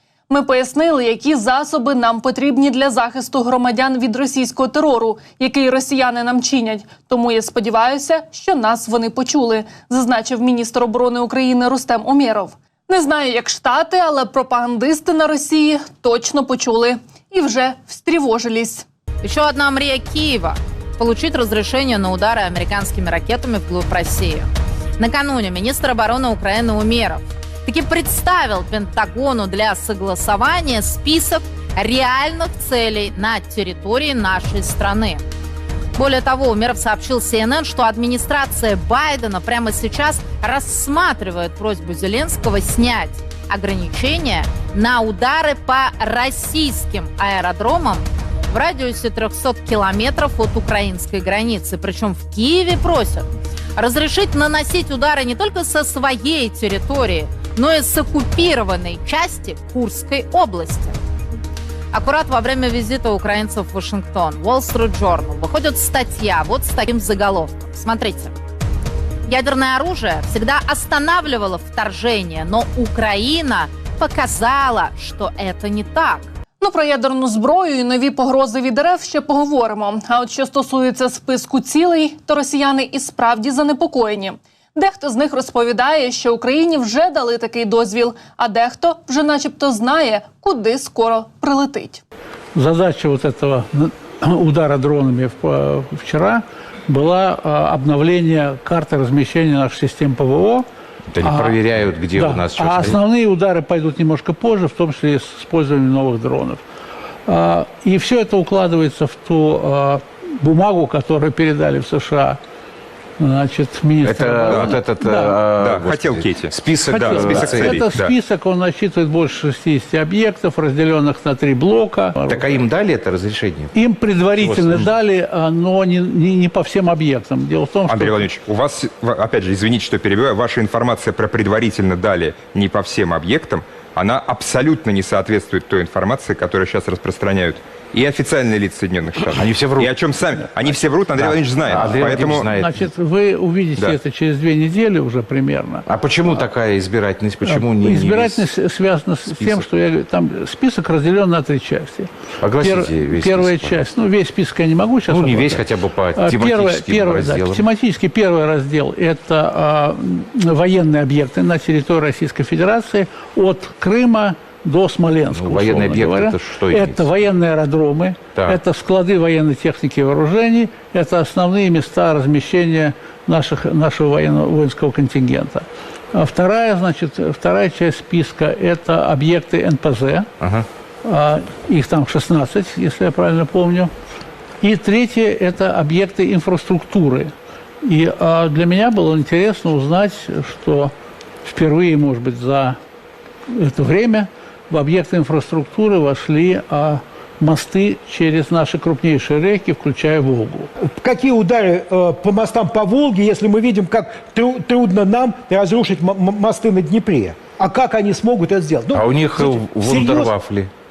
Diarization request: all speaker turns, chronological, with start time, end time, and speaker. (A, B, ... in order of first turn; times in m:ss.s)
0:00.3-0:18.9 A
0:19.2-0:35.2 B
0:36.0-1:01.0 B
1:01.9-1:08.3 B
1:09.3-1:16.3 B
1:16.6-1:32.0 A
1:32.6-1:40.7 C
1:41.1-1:43.0 D
1:41.2-1:41.6 C
1:42.1-1:46.6 C
1:47.3-1:52.4 C
1:53.2-1:55.4 C
1:54.0-1:57.8 D
1:54.5-1:54.8 E
1:55.6-1:58.1 E
1:56.9-2:02.4 C
2:02.3-2:03.7 D
2:03.7-2:08.3 C
2:04.4-2:04.9 D
2:07.9-2:22.5 E
2:19.3-2:19.9 D
2:21.2-2:22.7 D
2:22.0-2:25.9 C
2:25.9-2:28.4 D
2:27.4-2:35.6 C
2:29.3-2:29.6 D
2:32.4-2:33.8 D
2:35.1-2:37.6 D
2:36.2-3:00.3 C
2:45.3-2:47.1 D
3:00.4-3:00.7 D
3:01.0-3:03.9 C
3:04.6-3:07.3 C
3:07.8-3:10.9 C
3:11.5-3:12.8 C
3:13.5-3:20.7 C
3:20.8-3:30.3 F
3:28.9-3:30.7 D